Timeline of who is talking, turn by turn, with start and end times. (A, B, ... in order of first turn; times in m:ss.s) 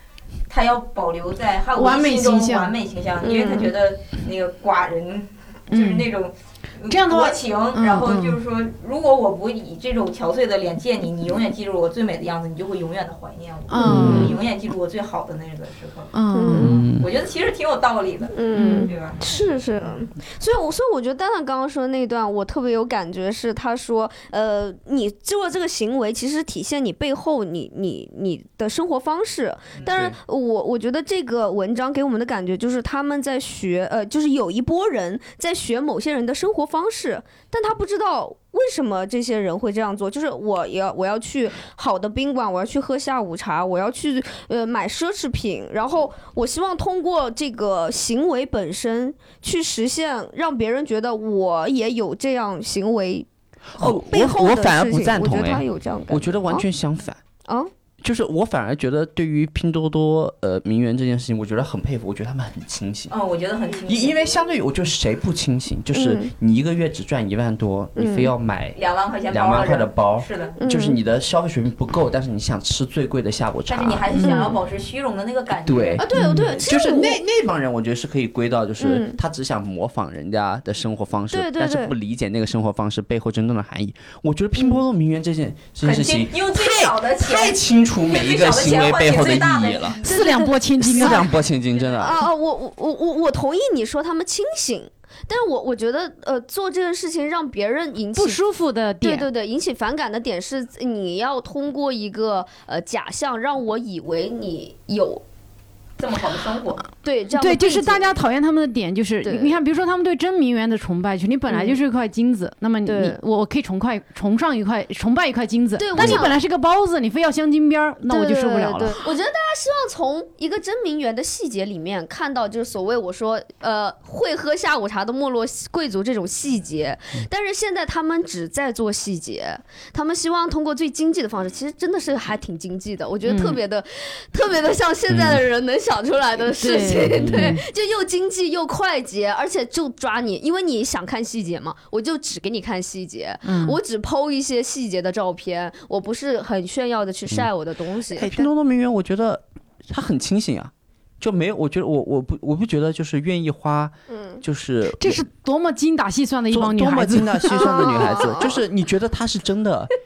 0:00.5-0:20.1 A
0:01.7-0:02.7 B
0:03.2-0:03.7 C
0:05.7-0:06.1 B
0:06.9-0:08.4 B
0:13.7-0:14.4 B
0:13.8-0:14.4 C
0:13.8-0:14.3 D
0:16.1-0:16.8 B
0:16.3-0:16.8 C
0:16.5-0:17.1 D
0:18.3-0:56.6 C
0:18.5-0:18.9 B
0:29.8-0:30.0 A
0:29.8-0:30.2 D
0:53.7-0:57.2 D
0:58.0-1:03.1 D
1:03.1-1:04.2 A
1:03.9-1:08.8 D
1:05.9-1:06.3 C
1:08.0-1:08.3 C
1:08.7-1:10.6 A
1:09.3-1:14.1 D
1:10.6-1:11.0 C
1:13.7-1:16.0 A
1:14.2-1:14.5 C
1:15.6-1:30.0 D
1:16.0-1:17.2 C
1:16.1-1:16.5 B
1:18.8-1:19.2 C
1:21.3-1:21.9 C
1:25.8-1:32.2 A
1:30.0-1:31.2 B
1:30.0-1:31.1 C
1:30.8-1:32.2 D
1:32.0-1:38.4 C
1:38.2-1:39.3 B
1:39.0-1:45.2 C
1:46.0-1:46.8 A
1:47.0-1:48.1 C
1:47.3-1:59.0 B
1:49.2-1:49.6 C
1:51.5-1:51.8 C
1:52.8-1:53.2 C
1:55.8-1:56.4 C
1:56.0-1:56.2 D
1:58.1-2:28.3 C
2:13.2-2:13.6 B
2:15.1-2:15.4 D
2:16.6-2:17.6 B
2:17.1-2:17.6 D
2:23.4-2:23.8 B
2:28.1-2:35.2 D
2:34.1-2:34.4 C
2:35.0-2:38.1 B
2:36.5-2:39.9 D
2:37.5-2:38.6 C